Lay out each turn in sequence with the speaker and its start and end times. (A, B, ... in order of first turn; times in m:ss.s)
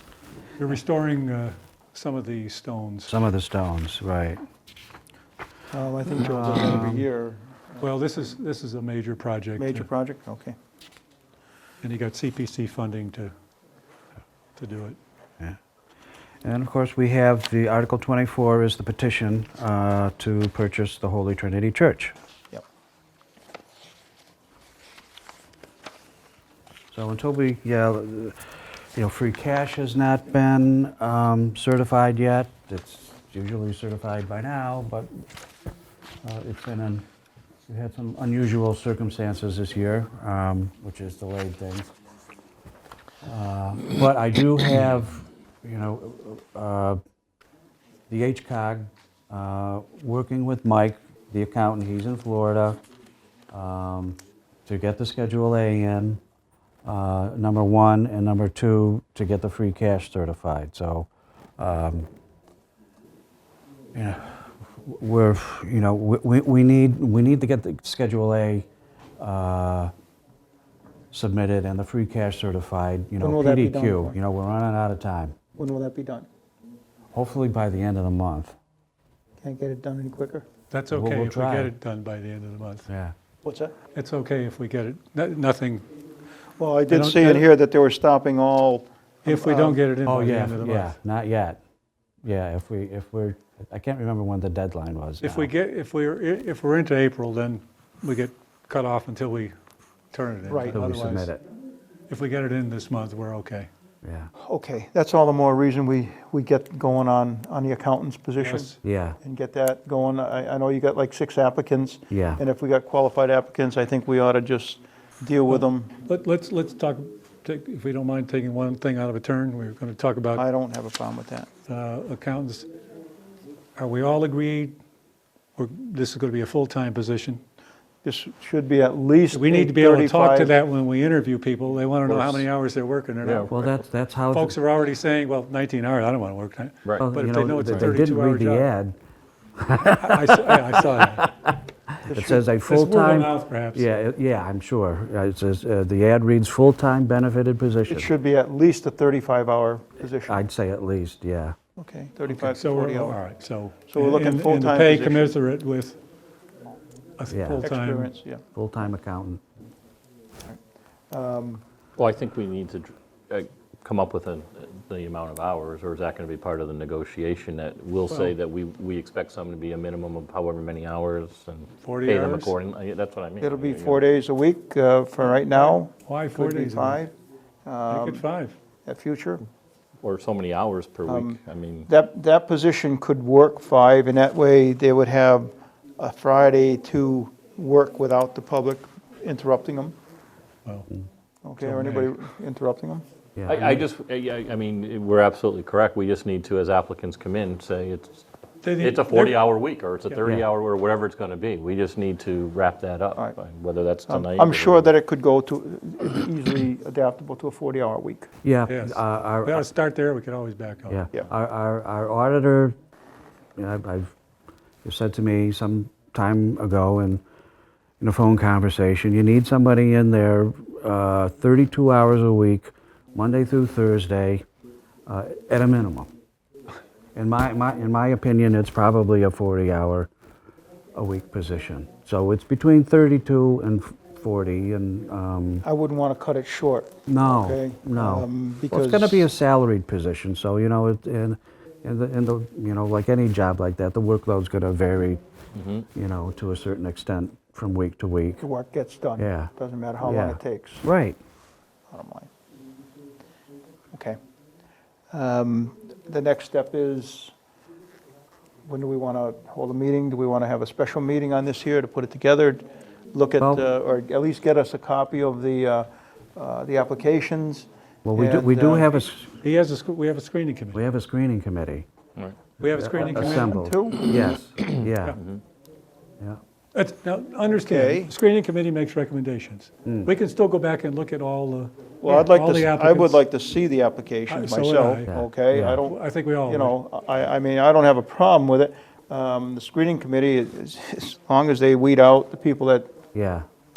0:00.6-0:03.2 A
0:03.1-0:04.4 B
0:05.7-0:07.9 C
0:06.2-0:07.0 B
0:07.8-0:09.9 A
0:09.6-0:10.5 C
0:11.8-0:13.3 A
0:14.6-0:15.0 A
0:16.4-0:22.2 B
0:26.9-0:28.4 B
0:29.0-0:35.2 B
0:36.2-0:37.0 B
0:37.7-0:41.9 B
0:43.2-0:47.0 B
0:48.1-0:52.8 B
0:53.5-0:56.2 B
0:56.8-1:02.1 B
1:03.9-1:08.7 B
1:09.2-1:09.9 B
1:11.1-1:15.4 B
1:13.2-1:14.2 C
1:15.6-1:16.3 C
1:17.1-1:18.6 B
1:19.4-1:20.4 C
1:20.7-1:22.9 A
1:20.9-1:21.7 B
1:22.9-1:23.1 B
1:23.4-1:23.7 C
1:23.9-1:25.9 A
1:26.6-1:29.8 C
1:26.9-1:27.5 A
1:29.2-1:31.0 A
1:30.0-1:31.6 B
1:32.2-1:35.5 B
1:35.2-1:39.5 A
1:40.1-1:41.3 A
1:40.4-1:40.8 C
1:40.7-1:41.4 B
1:42.1-1:43.7 A
1:44.0-1:44.3 B
1:44.4-1:55.9 C
1:48.4-1:48.8 A
1:48.8-1:49.2 B
1:52.1-1:52.4 B
1:55.5-2:00.4 A
2:00.3-2:01.5 C
2:01.7-2:02.7 A
2:03.8-2:04.8 A
2:05.6-2:07.4 A
2:08.0-2:10.6 C
2:09.3-2:13.7 A
2:12.1-2:12.4 C
2:13.2-2:13.6 D
2:13.5-2:14.6 B
2:14.3-2:18.7 A
2:17.0-2:19.0 B
2:19.6-2:28.1 B
2:19.9-2:21.2 A
2:22.1-2:22.4 C
2:22.6-2:23.9 A
2:27.9-2:30.4 C
2:30.2-2:31.6 B
2:31.8-2:33.2 C
2:32.3-2:36.0 A
2:33.9-2:35.4 C
2:37.2-2:38.1 A
2:37.3-2:37.7 B
2:37.6-2:38.4 C
2:38.5-2:39.4 B
2:40.4-2:41.6 C
2:42.0-2:54.0 D
2:51.8-2:52.6 A
2:53.4-2:57.1 C
2:55.3-2:57.0 A
2:57.6-2:58.2 C
2:57.9-2:58.6 A
2:58.9-2:59.4 C
3:00.0-3:01.9 D
3:01.1-3:10.0 C
3:11.4-3:13.0 C
3:11.6-3:12.2 A
3:13.4-3:13.8 B
3:13.5-3:18.2 D
3:18.6-3:19.4 A
3:18.8-3:24.9 D
3:24.1-3:28.3 C
3:28.4-3:29.7 B
3:28.7-3:31.0 A
3:30.9-3:32.8 B
3:33.6-3:34.2 B
3:34.8-3:37.2 B
3:38.0-3:44.4 B
3:45.1-3:46.1 B
3:47.2-3:50.1 B
3:51.0-3:55.6 B
3:55.6-3:59.3 C
3:57.1-4:05.2 B
4:05.6-4:05.8 D
4:05.9-4:08.4 B
4:08.4-4:10.8 C
4:09.2-4:11.2 B
4:11.9-4:12.3 C
4:13.9-4:14.2 C
4:15.1-4:17.3 C
4:18.7-4:29.0 C
4:23.4-4:23.7 B
4:28.0-4:29.4 B
4:29.4-4:30.8 A
4:30.7-4:31.9 B
4:32.6-4:33.6 A
4:32.6-4:35.2 B
4:33.0-4:34.4 C
4:34.1-4:35.4 D
4:36.7-4:43.2 A
4:37.5-4:38.1 C
4:39.8-4:40.1 B
4:42.0-4:52.9 C
4:44.3-4:46.8 A
4:45.1-4:45.8 B
4:53.1-4:53.4 B